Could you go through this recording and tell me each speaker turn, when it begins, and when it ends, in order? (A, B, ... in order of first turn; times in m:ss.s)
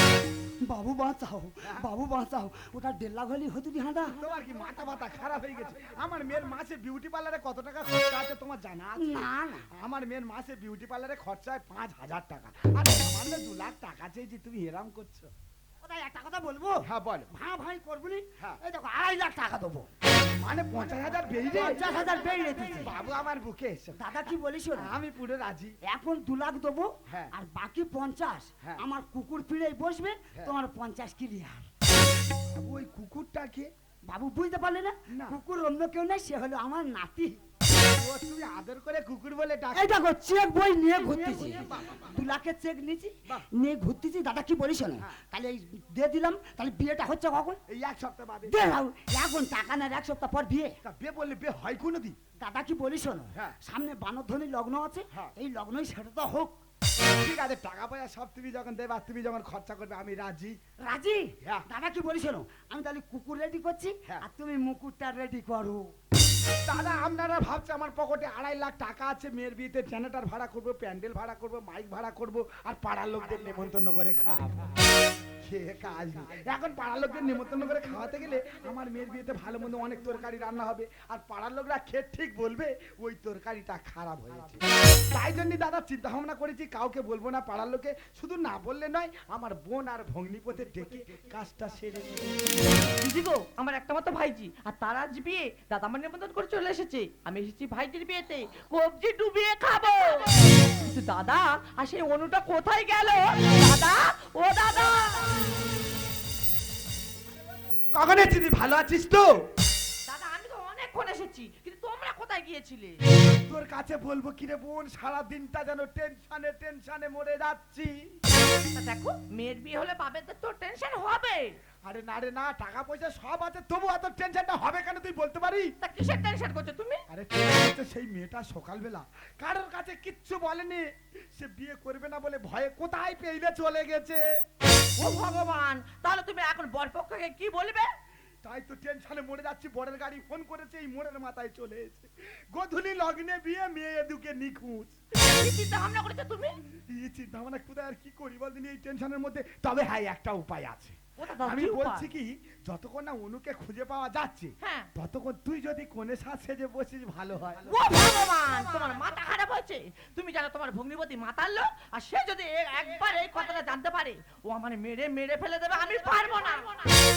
0:00.6-0:04.2 A
0:04.1-0:15.3 B
0:09.0-0:09.7 A
0:15.8-0:19.9 A
0:16.8-0:17.3 B
0:20.4-0:21.9 B
0:21.5-0:22.9 A
0:22.8-0:25.8 B
0:24.0-0:25.0 A
0:25.9-0:31.7 A
0:27.1-0:27.3 B
0:32.5-0:33.7 B
0:34.1-0:37.4 A
0:35.1-0:35.4 B
0:37.7-0:39.9 B
0:39.8-0:47.6 A
0:47.7-0:48.6 B
0:48.5-0:50.8 A
0:50.8-0:52.2 B
0:52.4-0:56.6 A
0:57.2-1:00.6 B
1:00.8-1:05.9 A
1:06.6-1:14.8 B
1:15.4-1:32.8 B
1:33.0-1:45.5 C
1:47.9-1:49.3 B
1:50.1-1:53.0 C
1:53.5-1:58.2 B
1:58.7-2:01.6 C
2:01.8-2:05.8 B
2:05.8-2:07.0 C
2:07.1-2:14.2 B
2:15.0-2:17.9 C
2:18.4-2:25.0 B
2:25.2-2:26.6 C
2:26.7-2:37.7 B
2:31.2-2:32.1 C
2:34.6-2:34.9 C
2:37.7-2:47.0 C